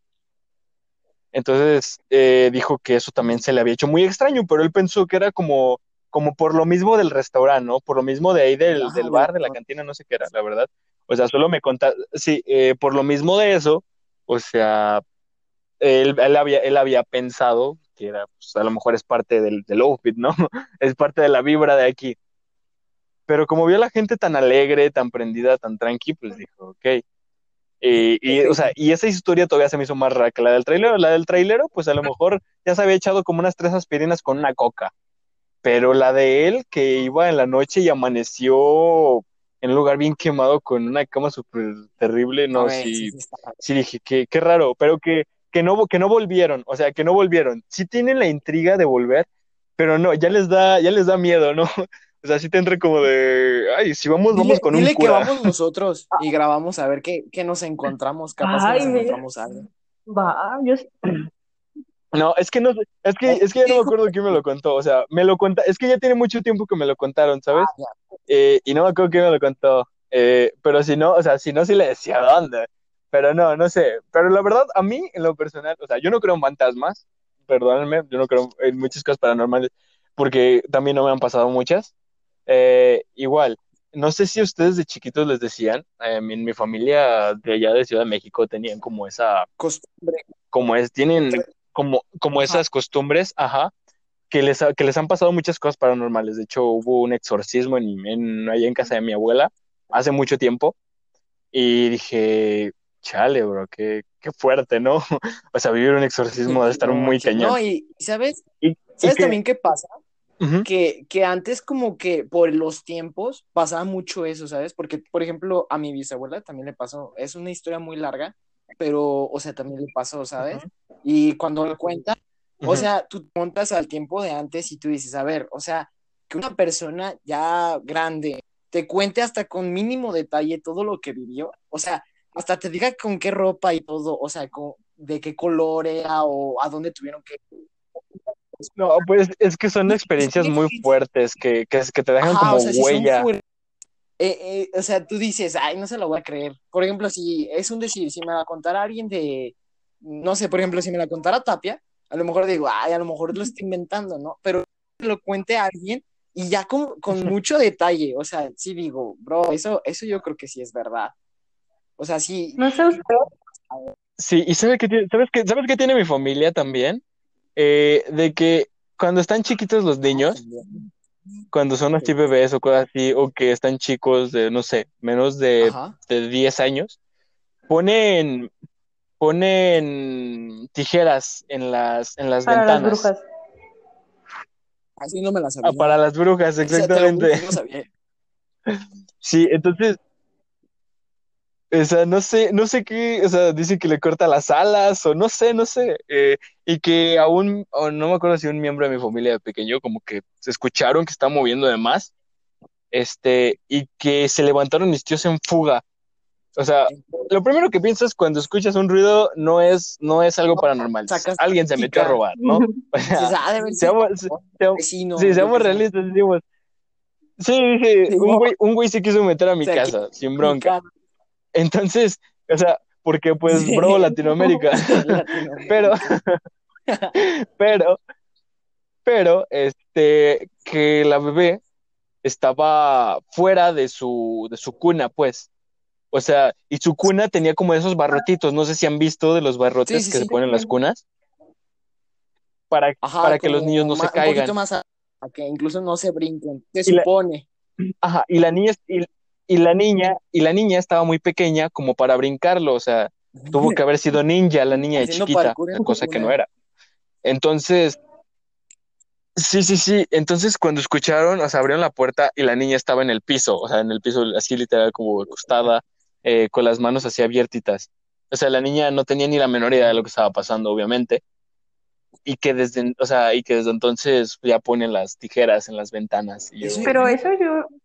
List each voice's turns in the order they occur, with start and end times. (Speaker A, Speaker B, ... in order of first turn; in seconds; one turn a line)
Speaker A: 1.3-15.0
Speaker B: 8.7-9.6
Speaker A: 15.8-22.1
Speaker A: 23.3-27.0
Speaker A: 27.8-34.9
Speaker B: 28.3-28.7
Speaker A: 35.6-55.5
Speaker B: 42.5-43.6
Speaker B: 54.3-59.6
Speaker C: 58.4-59.2
Speaker C: 60.1-60.9
Speaker A: 62.1-67.7
Speaker B: 63.2-64.4
Speaker B: 67.5-67.9
Speaker A: 68.3-81.9
Speaker A: 82.5-89.5
Speaker B: 89.6-90.3
Speaker A: 90.5-93.7
Speaker A: 94.3-100.7
Speaker A: 101.5-105.0
Speaker A: 105.5-107.6
Speaker B: 106.5-108.4
Speaker A: 108.6-109.4
Speaker B: 109.0-109.9
Speaker A: 110.4-110.7
Speaker B: 110.6-137.4
Speaker A: 120.4-120.7
Speaker A: 122.6-122.8
Speaker A: 138.8-143.3
Speaker B: 139.9-140.9
Speaker B: 142.2-143.4
Speaker B: 144.2-161.1
Speaker B: 162.0-163.0
Speaker C: 162.6-163.2
Speaker A: 164.2-167.0
Speaker A: 167.6-170.4
Speaker B: 170.1-170.8
Speaker A: 171.5-177.0
Speaker B: 175.6-175.9
Speaker A: 177.7-178.5
Speaker A: 179.2-183.1
Speaker C: 182.4-183.2
Speaker B: 185.0-186.0
Speaker A: 185.6-187.5
Speaker B: 186.6-187.9
Speaker A: 188.7-190.0
Speaker A: 191.7-202.1
Speaker A: 202.9-205.8
Speaker A: 206.6-216.4
Speaker B: 206.9-207.3
Speaker B: 210.5-212.2
Speaker B: 213.1-215.9
Speaker A: 217.4-220.7
Speaker B: 218.1-218.5
Speaker B: 219.6-220.9
Speaker A: 221.5-226.4
Speaker B: 223.4-224.1
Speaker B: 224.7-226.2
Speaker B: 226.9-227.2
Speaker A: 227.1-228.0
Speaker A: 229.0-231.6
Speaker A: 232.2-235.5
Speaker A: 236.1-241.0
Speaker B: 239.8-240.3
Speaker A: 242.7-244.5
Speaker B: 243.0-247.5
Speaker A: 248.0-256.5
Speaker B: 253.4-253.8
Speaker B: 254.9-256.4
Speaker A: 257.2-258.0
Speaker A: 259.4-271.2
Speaker A: 272.2-276.9
Speaker B: 276.6-277.3
Speaker C: 276.8-277.7